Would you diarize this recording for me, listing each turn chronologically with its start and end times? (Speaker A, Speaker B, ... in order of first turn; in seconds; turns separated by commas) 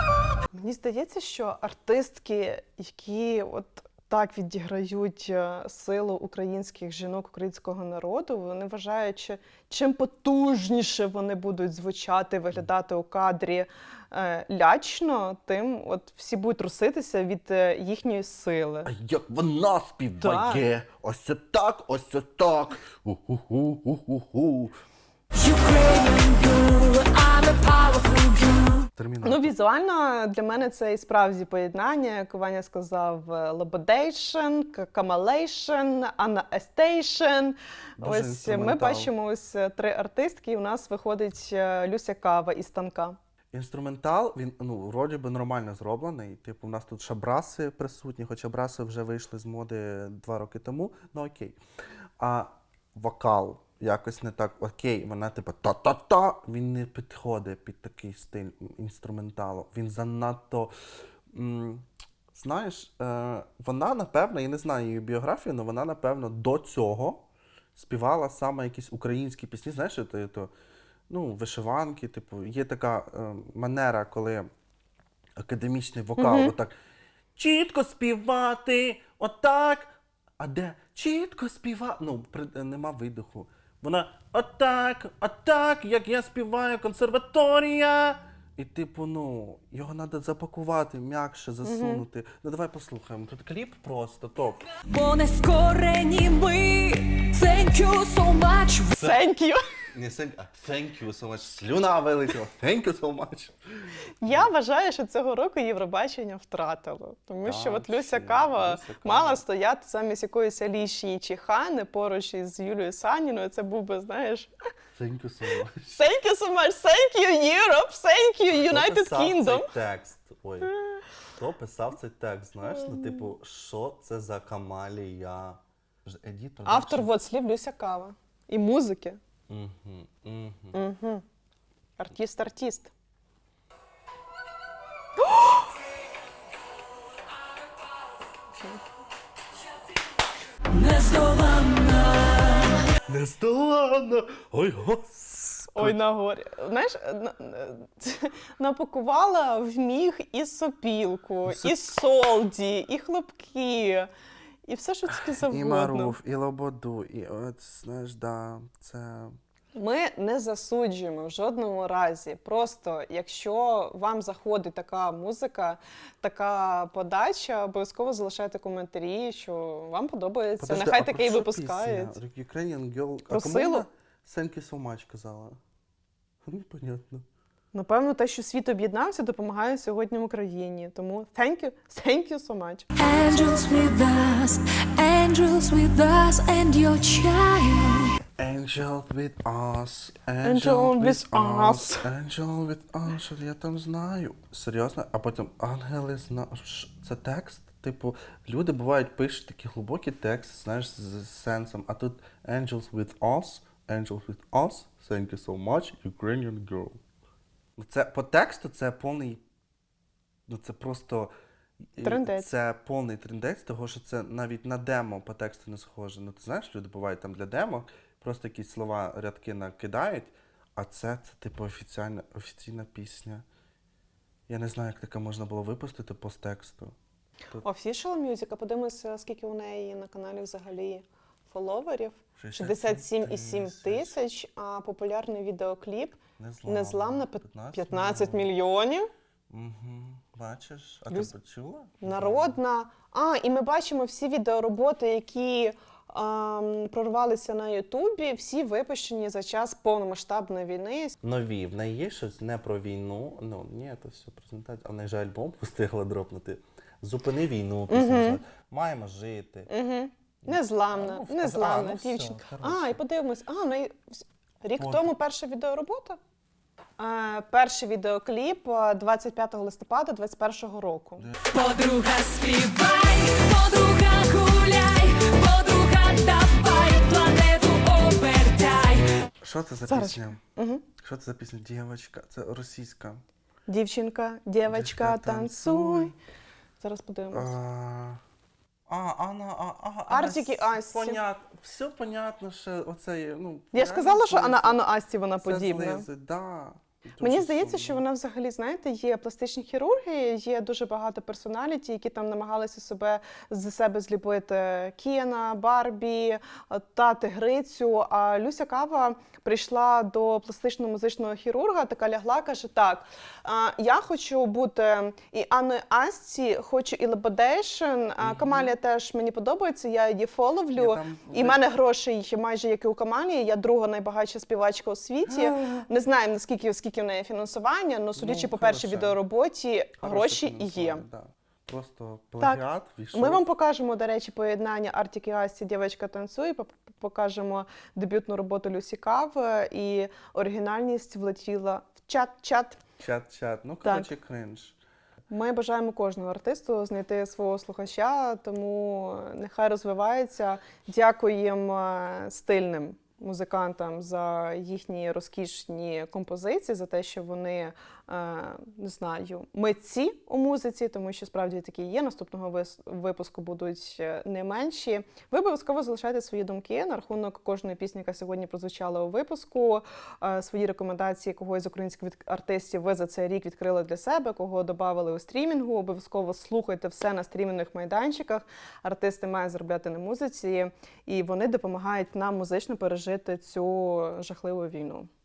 Speaker A: 0.5-18.9, Speaker B: 18.9-24.8, Speaker A: 20.2-20.6, Speaker C: 25.3-28.9, Speaker B: 28.9-29.5, Speaker A: 29.2-43.2, Speaker B: 38.0-39.1, Speaker B: 43.5-51.6, Speaker B: 52.2-60.7, Speaker B: 61.3-67.2, Speaker B: 67.7-70.5, Speaker B: 71.1-74.5, Speaker B: 75.4-76.7, Speaker A: 76.2-76.5, Speaker B: 77.4-94.6, Speaker A: 91.6-92.0, Speaker C: 94.9-99.0, Speaker A: 99.0-99.6, Speaker B: 99.9-104.5, Speaker A: 104.2-114.5, Speaker B: 107.4-109.4, Speaker B: 114.9-116.0, Speaker A: 115.9-119.7, Speaker B: 118.5-120.7, Speaker B: 121.3-127.1, Speaker A: 122.7-123.3, Speaker A: 126.6-129.2, Speaker B: 129.5-130.8, Speaker A: 130.7-131.2, Speaker A: 132.0-132.9, Speaker C: 140.7-142.8, Speaker B: 143.1-146.0, Speaker A: 145.7-154.1, Speaker B: 151.4-151.8, Speaker A: 154.7-156.2, Speaker B: 155.4-159.4, Speaker A: 159.7-172.2, Speaker B: 170.6-175.6, Speaker A: 173.3-173.9, Speaker B: 176.4-177.2, Speaker A: 177.7-182.9, Speaker C: 182.9-188.1, Speaker B: 188.4-207.0, Speaker A: 190.4-192.1, Speaker B: 207.8-209.4, Speaker B: 210.5-211.3, Speaker B: 211.9-223.4, Speaker A: 212.0-212.5, Speaker B: 224.5-226.9, Speaker A: 227.6-239.1, Speaker B: 232.4-234.2, Speaker B: 236.4-238.5, Speaker B: 239.5-242.6, Speaker A: 242.0-251.2, Speaker B: 251.2-259.7, Speaker A: 257.9-258.4, Speaker A: 259.7-266.2, Speaker B: 260.4-263.0, Speaker B: 264.8-265.1, Speaker A: 267.0-271.3, Speaker C: 271.4-279.1, Speaker B: 279.4-280.4, Speaker A: 279.9-280.8, Speaker B: 280.9-283.2, Speaker A: 283.7-286.1, Speaker B: 284.6-286.1, Speaker A: 286.8-287.6, Speaker B: 287.3-288.2, Speaker B: 288.9-294.8, Speaker A: 290.1-291.2, Speaker A: 293.7-296.1, Speaker B: 295.4-298.1, Speaker A: 297.2-331.0, Speaker B: 318.2-318.7, Speaker B: 320.7-321.6, Speaker B: 325.2-325.9, Speaker B: 328.1-329.2, Speaker B: 330.0-333.4, Speaker A: 333.1-342.8, Speaker B: 343.0-344.8, Speaker A: 343.8-344.1, Speaker A: 345.3-385.1